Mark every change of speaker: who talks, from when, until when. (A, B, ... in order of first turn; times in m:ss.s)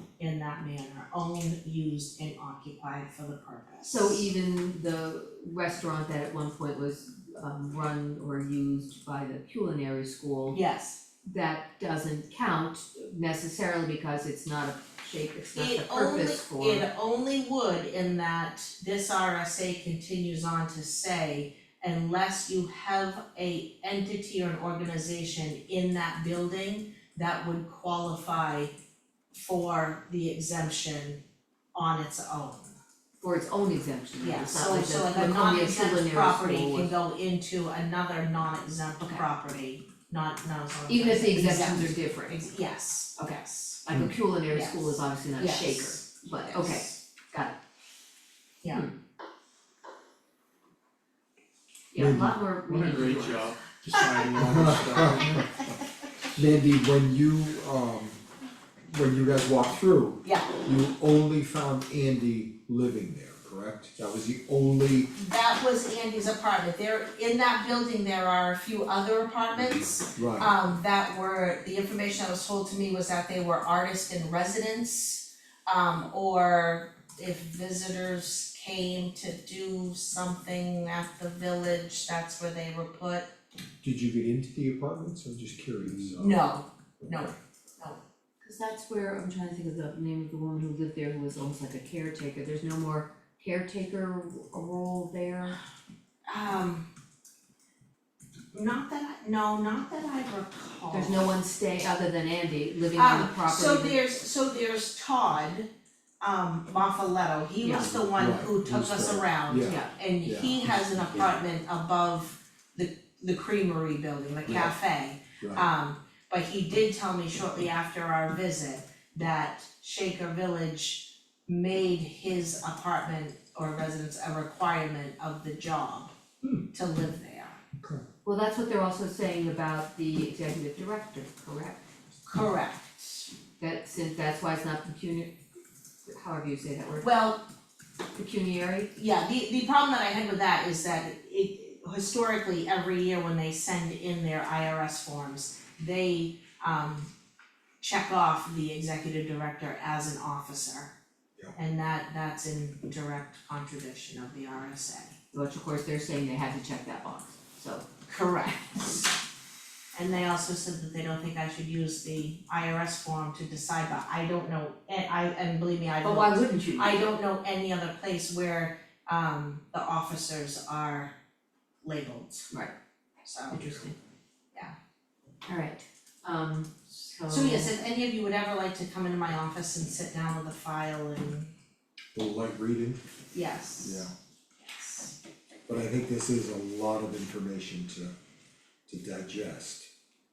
0:00.2-0:04.2 A
0:03.8-0:10.6 B
0:10.5-0:11.0 A
0:11.2-0:16.8 B
0:15.5-0:28.7 A
0:29.3-0:31.2 A
0:31.8-0:32.8 A
0:33.2-0:36.9 B
0:34.2-0:43.8 A
0:40.9-0:42.5 B
0:43.2-0:47.5 B
0:44.5-0:47.0 A
0:48.6-0:48.9 A
0:51.9-0:53.5 B
0:52.0-0:52.4 C
0:52.6-0:55.7 D
0:54.4-0:55.4 C
0:56.4-0:58.2 C
0:58.8-1:05.1 C
1:00.2-1:00.6 A
1:05.2-1:23.3 A
1:10.2-1:10.5 C
1:23.8-1:26.4 C
1:26.2-1:28.0 A
1:27.0-1:27.4 C
1:28.4-1:35.6 B
1:36.3-1:36.9 A
1:38.5-1:41.3 A
1:40.9-1:44.0 B
1:43.0-1:45.7 A
1:46.2-2:06.1 A
1:47.6-1:47.9 B
1:48.0-1:51.3 C
1:49.6-1:49.9 B
1:54.5-1:54.7 C
1:55.4-1:55.6 C
2:06.7-2:07.6 A
2:08.2-2:11.8 B
2:12.3-2:13.3 A
2:13.6-2:15.4 B
2:16.1-2:17.1 B
2:17.0-2:17.4 A
2:18.1-2:18.9 B
2:18.9-2:27.1 A
2:27.8-2:30.9 A
2:31.6-2:35.2 A
2:35.3-2:37.8 B
2:38.1-2:39.1 A
2:40.0-2:51.1 A
2:46.0-2:47.1 B
2:51.8-2:52.5 A
2:53.2-2:53.6 A
2:53.5-2:54.0 B
2:55.5-2:57.7 B
2:57.3-3:01.5 A
3:02.1-3:03.0 C
3:03.3-3:04.1 A
3:03.8-3:04.1 C
3:04.6-3:05.2 A
3:05.7-3:08.2 C
3:08.9-3:09.9 C